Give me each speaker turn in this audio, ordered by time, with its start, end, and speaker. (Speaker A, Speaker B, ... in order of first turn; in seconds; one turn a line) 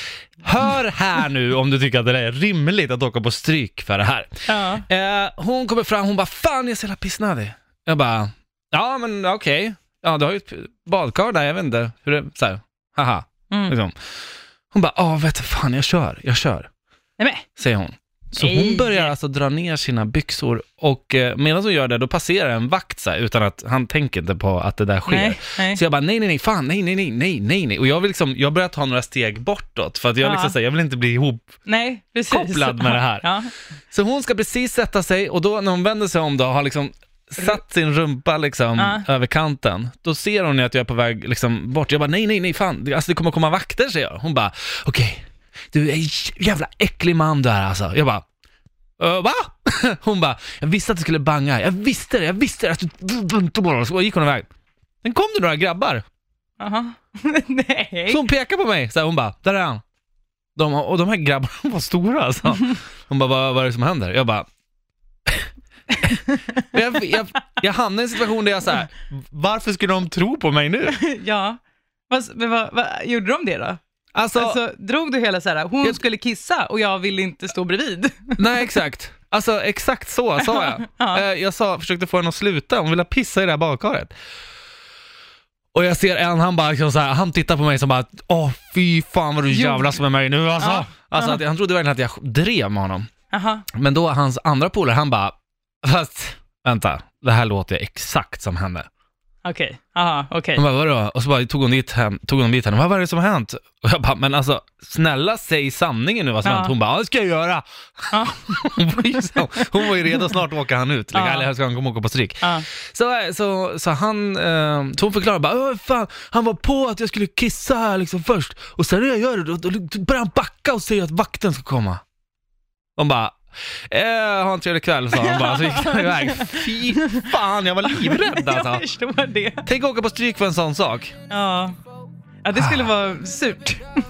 Speaker A: 0.4-13.9
Speaker B: 4.5-4.8
Speaker A: 14.7-16.7
Speaker B: 17.2-17.5
Speaker A: 17.6-31.5
Speaker B: 18.4-19.1
Speaker B: 25.1-25.8
Speaker B: 30.2-30.6
Speaker B: 31.6-33.5
Speaker A: 32.3-33.3
Speaker A: 33.9-48.2
Speaker B: 38.8-39.0
Speaker A: 49.0-54.5
Speaker A: 55.0-56.0
Speaker B: 56.6-58.2
Speaker A: 58.1-59.8
Speaker A: 60.6-64.5
Speaker B: 66.0-66.6
Speaker A: 66.6-71.0
Speaker B: 70.9-71.6
Speaker B: 72.1-73.8
Speaker A: 74.1-74.6
Speaker B: 74.3-78.7
Speaker A: 78.4-84.1
Speaker B: 80.4-81.2
Speaker A: 85.7-93.1
Speaker B: 89.5-90.0
Speaker B: 90.6-91.4
Speaker B: 93.3-93.7
Speaker A: 93.7-98.9
Speaker B: 99.4-100.6
Speaker A: 100.6-122.0
Speaker B: 106.4-106.7
Speaker B: 108.1-108.4
Speaker B: 111.1-111.5
Speaker B: 112.4-112.7
Speaker A: 123.0-128.8
Speaker B: 125.1-129.7
Speaker A: 129.7-131.1
Speaker B: 131.3-131.8
Speaker B: 132.4-133.9
Speaker A: 132.5-132.9